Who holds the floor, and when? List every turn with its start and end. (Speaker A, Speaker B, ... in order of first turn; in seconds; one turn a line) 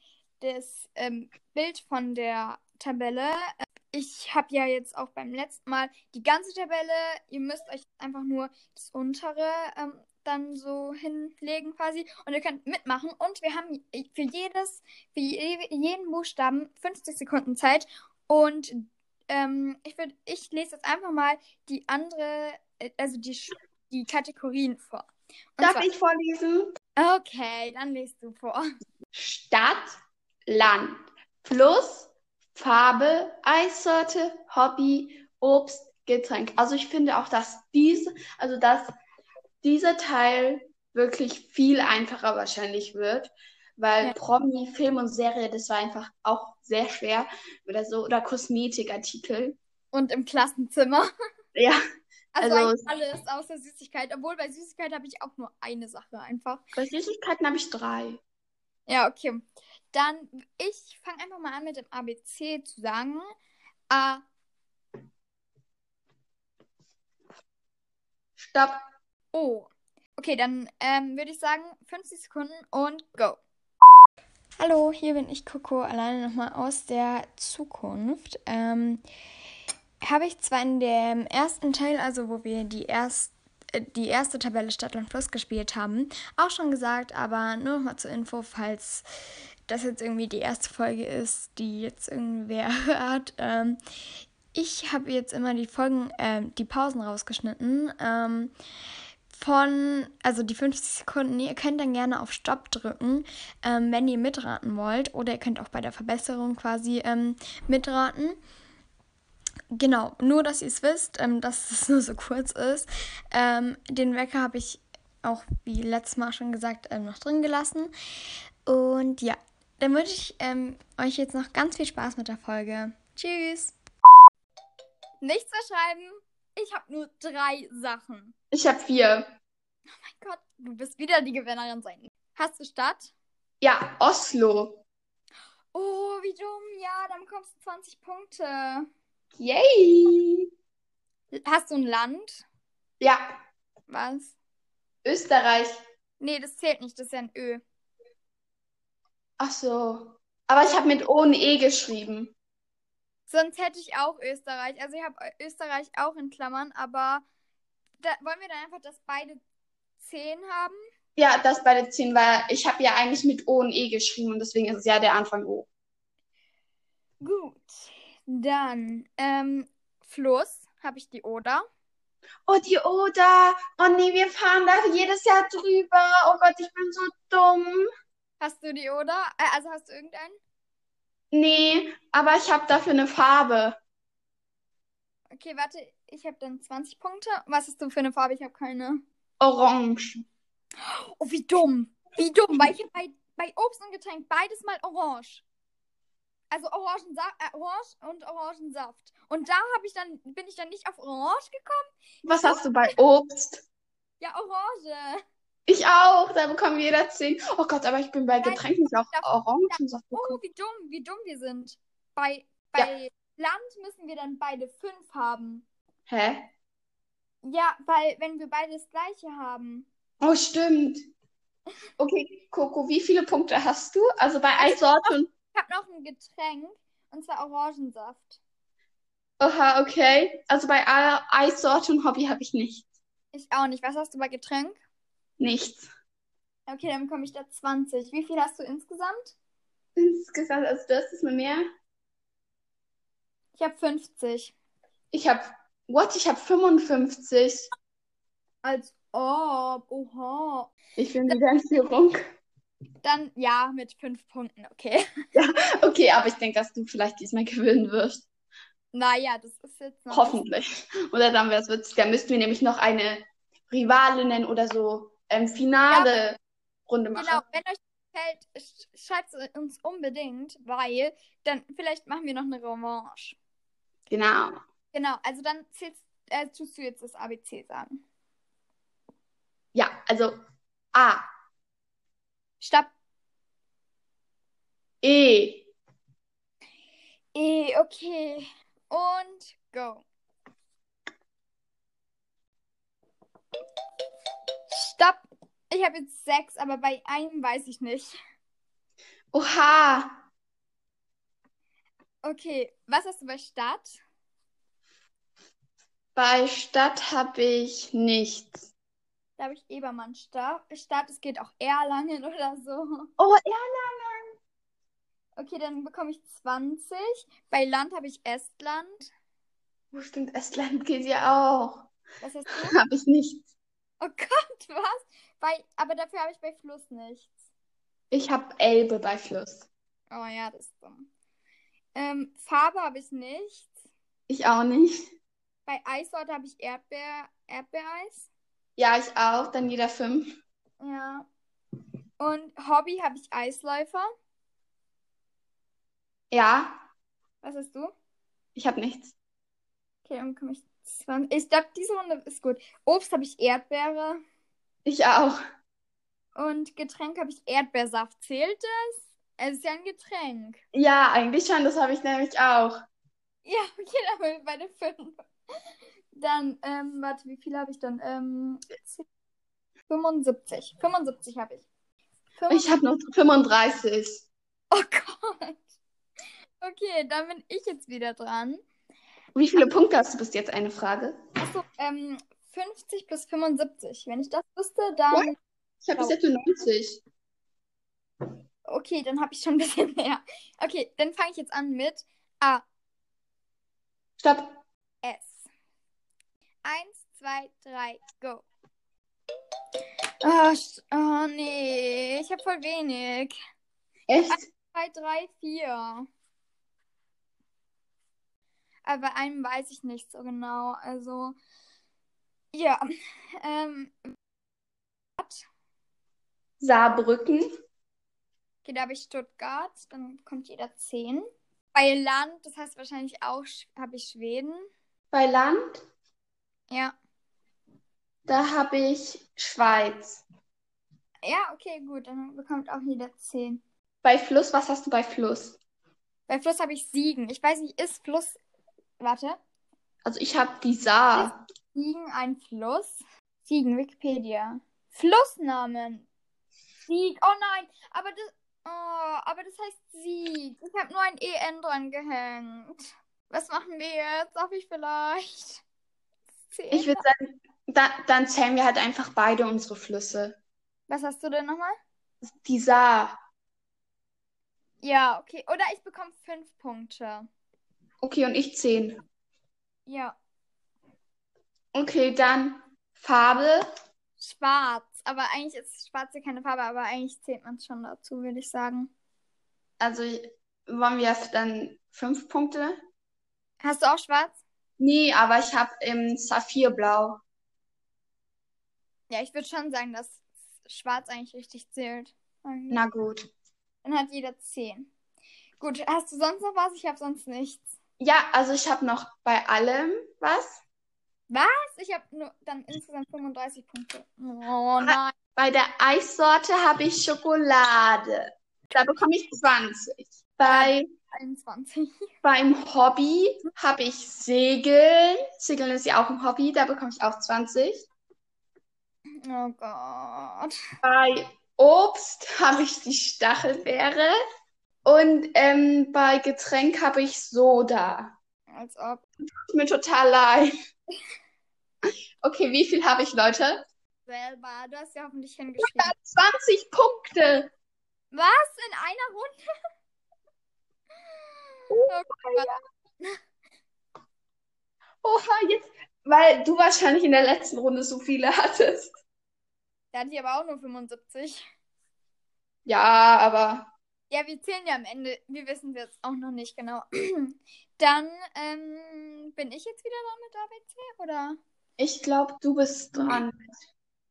Speaker A: 0.4-25.9
Speaker B: 25.6-26.7
Speaker A: 27.0-28.6
Speaker B: 29.1-29.9
Speaker B: 30.5-38.9
Speaker B: 39.6-49.6
Speaker A: 49.9-51.1
Speaker B: 51.5-51.8
Speaker A: 52.4-56.6
Speaker B: 52.4-52.9
Speaker B: 56.8-58.2
Speaker A: 58.9-63.3
Speaker A: 63.9-64.2
Speaker B: 68.4-68.8
Speaker A: 69.3-73.4
Speaker A: 74.6-79.0
Speaker A: 80.0-89.0
Speaker A: 89.7-93.8
Speaker A: 94.5-98.5
Speaker A: 99.3-108.4
Speaker A: 109.7-117.9
Speaker A: 118.7-123.7
Speaker A: 125.2-128.3
Speaker B: 128.5-129.3
Speaker A: 130.0-133.1
Speaker B: 133.6-134.8
Speaker A: 135.7-138.9
Speaker B: 139.4-140.4
Speaker A: 141.3-142.4
Speaker A: 143.9-144.3
Speaker B: 145.0-145.7
Speaker A: 146.2-147.6
Speaker B: 149.4-152.3
Speaker A: 153.3-157.2
Speaker A: 158.0-159.4
Speaker A: 160.0-160.8
Speaker B: 161.2-165.7
Speaker A: 167.2-171.6
Speaker B: 172.5-177.9
Speaker A: 178.4-180.4
Speaker B: 181.3-183.8
Speaker A: 185.3-189.0
Speaker B: 189.4-190.2
Speaker A: 190.8-195.4
Speaker A: 196.5-202.9
Speaker B: 202.2-203.6
Speaker A: 204.2-205.2
Speaker B: 205.7-210.4
Speaker A: 208.4-215.7
Speaker B: 216.1-216.5
Speaker A: 217.4-219.9
Speaker B: 220.2-221.1
Speaker B: 222.0-225.3
Speaker A: 224.6-228.4
Speaker B: 229.4-232.9
Speaker A: 233.3-234.8
Speaker B: 235.4-235.9
Speaker A: 236.7-239.3
Speaker B: 239.9-241.6
Speaker A: 243.5-244.5
Speaker B: 245.1-247.7
Speaker A: 248.6-250.7
Speaker B: 251.0-252.2
Speaker A: 253.0-255.0
Speaker B: 255.3-258.2
Speaker A: 258.9-260.4
Speaker B: 260.1-267.4
Speaker A: 267.1-273.4
Speaker B: 274.1-274.5
Speaker A: 274.9-278.0
Speaker B: 279.7-280.3
Speaker B: 280.9-281.2
Speaker A: 282.6-282.9
Speaker B: 285.0-285.7
Speaker A: 287.3-290.1
Speaker A: 294.7-298.1
Speaker B: 299.3-300.2
Speaker A: 302.2-304.0
Speaker B: 306.1-308.7
Speaker A: 309.4-313.1
Speaker B: 313.2-314.3
Speaker A: 315.4-319.1
Speaker B: 319.9-321.9
Speaker A: 322.2-322.8
Speaker B: 322.5-323.5
Speaker A: 324.0-327.3
Speaker B: 328.1-329.7
Speaker A: 330.1-331.1
Speaker A: 331.9-333.7
Speaker B: 334.3-335.1
Speaker A: 335.6-338.3
Speaker B: 338.8-340.3
Speaker A: 340.8-341.3
Speaker A: 342.2-344.1
Speaker B: 346.3-346.8
Speaker A: 347.4-347.9
Speaker B: 348.6-349.1
Speaker A: 350.0-354.2
Speaker B: 354.8-355.4
Speaker A: 356.3-360.6
Speaker B: 360.7-362.8
Speaker A: 363.4-365.2
Speaker A: 366.1-369.0
Speaker A: 369.9-371.6
Speaker A: 372.4-372.7
Speaker B: 372.5-374.3
Speaker A: 374.7-375.8
Speaker A: 376.6-378.6
Speaker B: 379.3-381.2
Speaker A: 381.4-385.3
Speaker B: 385.1-387.0
Speaker A: 388.7-392.6
Speaker B: 394.2-394.6
Speaker A: 395.0-395.4
Speaker A: 396.6-398.4
Speaker A: 400.2-403.3
Speaker B: 404.1-404.4
Speaker A: 404.3-406.1
Speaker A: 408.8-411.4
Speaker A: 412.5-412.9
Speaker A: 413.4-414.1
Speaker A: 415.2-415.4
Speaker B: 416.6-417.4
Speaker A: 418.6-424.7
Speaker B: 425.1-425.8
Speaker A: 426.7-426.9
Speaker B: 428.2-430.2
Speaker A: 431.2-433.6
Speaker B: 434.0-435.6
Speaker A: 436.3-438.4
Speaker A: 439.0-439.4
Speaker B: 440.0-441.4
Speaker A: 441.1-446.1
Speaker A: 446.9-455.6
Speaker A: 456.5-457.0
Speaker B: 456.7-460.4
Speaker A: 460.9-461.8
Speaker B: 462.2-463.2
Speaker A: 464.8-467.3
Speaker B: 468.0-469.0
Speaker A: 469.9-470.1
Speaker B: 471.7-473.6
Speaker A: 474.2-478.9
Speaker B: 479.8-482.8
Speaker A: 483.6-484.4
Speaker B: 484.8-487.2
Speaker A: 489.1-492.9
Speaker B: 492.7-493.3
Speaker A: 493.8-494.9
Speaker A: 495.6-497.7
Speaker B: 498.0-500.6
Speaker A: 501.3-505.1
Speaker B: 504.8-510.9
Speaker A: 510.4-512.0
Speaker B: 512.2-517.9
Speaker A: 519.2-520.6
Speaker B: 520.8-524.2
Speaker B: 524.8-528.1
Speaker A: 528.5-529.0
Speaker B: 529.5-530.5
Speaker B: 532.2-533.7
Speaker A: 534.0-535.9
Speaker B: 535.6-537.5
Speaker A: 538.1-539.4
Speaker B: 541.7-542.5
Speaker A: 541.9-543.2
Speaker B: 545.0-548.9
Speaker A: 549.9-551.4
Speaker B: 552.6-553.7
Speaker A: 554.1-561.4
Speaker B: 561.8-563.6
Speaker A: 562.9-563.2